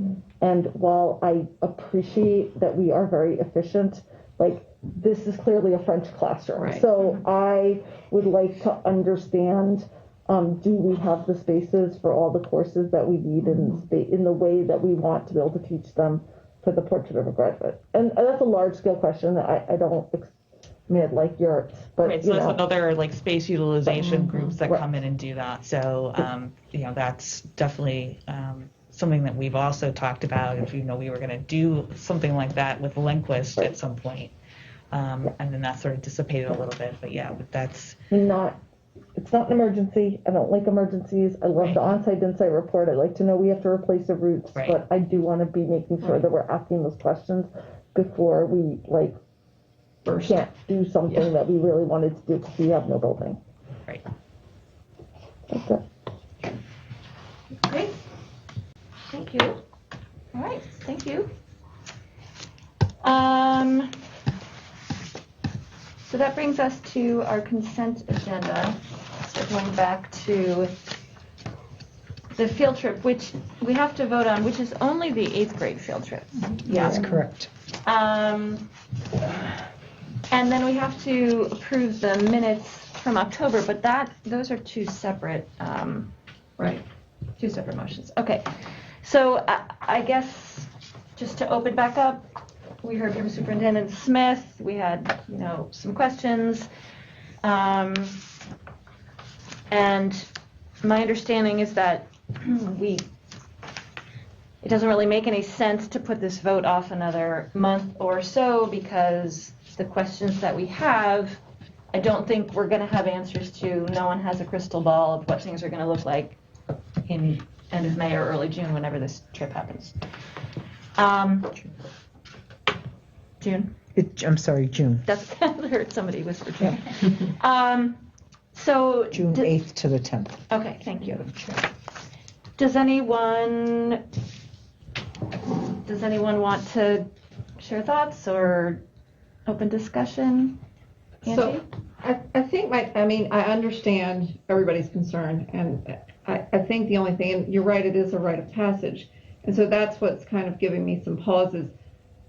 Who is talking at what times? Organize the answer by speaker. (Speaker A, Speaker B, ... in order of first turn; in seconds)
Speaker A: 0.4-20.3, 20.9-22.6, 23.9-24.8, 38.1-38.6, 39.2-49.2, 50.2-53.4, 55.5-55.8
Speaker B: 6.6-6.9, 86.6-86.8, 141.2-151.7
Speaker C: 22.0-34.3, 34.9-38.0, 41.6-41.8, 44.5-44.8
Speaker D: 57.7-57.9, 59.1-59.6, 60.3-61.3, 63.0-63.9, 66.0-70.8, 72.3-77.1, 77.8-78.7, 80.3-86.1, 87.4-88.5, 89.0-92.2, 92.8-96.7, 97.4-98.2, 99.7-100.3, 100.8-103.1, 104.6-111.4, 111.9-116.4, 117.0-120.0, 121.0-121.7, 123.4-123.7, 125.0-129.5, 130.5-131.4, 132.6-134.0, 135.7-138.8, 139.5-140.6, 141.2-141.6
Speaker E: 76.6-77.5, 123.9-125.0, 129.1-130.4